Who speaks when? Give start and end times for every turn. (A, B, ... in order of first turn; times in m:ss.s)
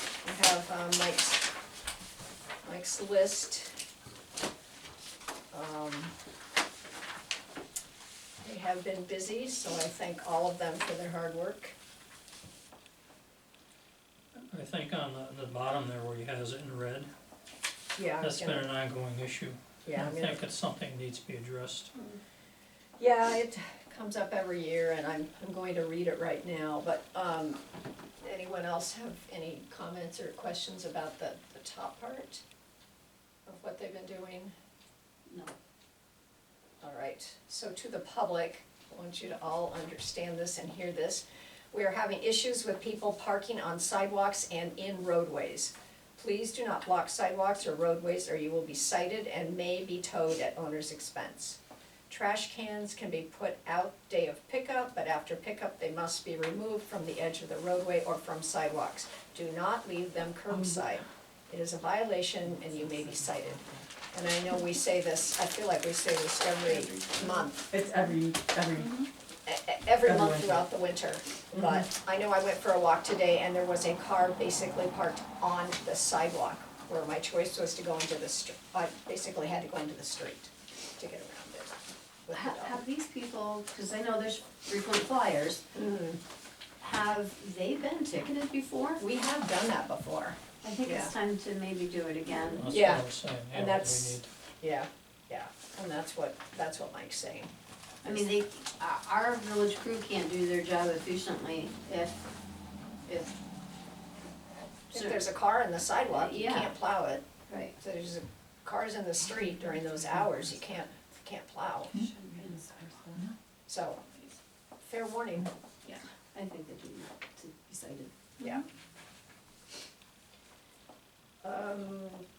0:00.2-0:01.4 A
0:02.6-0:03.7 A
0:05.5-0:06.1 A
0:08.4-0:11.7 A
0:14.5-0:17.1 B
0:18.0-0:18.7 A
0:18.2-0:21.9 B
0:19.8-0:20.4 A
0:23.0-0:27.6 A
0:28.2-0:32.4 A
0:33.5-0:34.5 A
0:35.3-0:35.5 C
0:36.8-0:51.6 A
0:52.1-1:07.7 A
1:00.5-1:00.9 D
1:02.5-1:03.9 D
1:07.7-1:09.0 D
1:08.8-1:09.1 C
1:09.5-1:22.8 A
1:10.0-1:10.6 D
1:11.6-1:11.9 D
1:22.3-1:25.6 C
1:25.7-1:26.2 A
1:26.8-1:29.0 C
1:29.0-1:31.2 A
1:30.6-1:32.7 C
1:32.5-1:34.3 B
1:32.6-1:37.5 A
1:38.0-1:42.3 C
1:43.1-1:43.3 C
1:44.9-1:45.3 C
1:44.9-1:47.2 A
1:46.1-1:46.8 C
1:47.5-1:47.8 C
1:47.8-1:51.9 A
1:49.5-1:50.8 D
1:52.0-1:52.7 C
1:52.4-1:53.3 D
1:53.7-1:54.0 A
1:54.8-1:55.5 A
1:56.3-1:58.1 C
1:58.4-1:58.6 A
2:01.4-2:02.2 A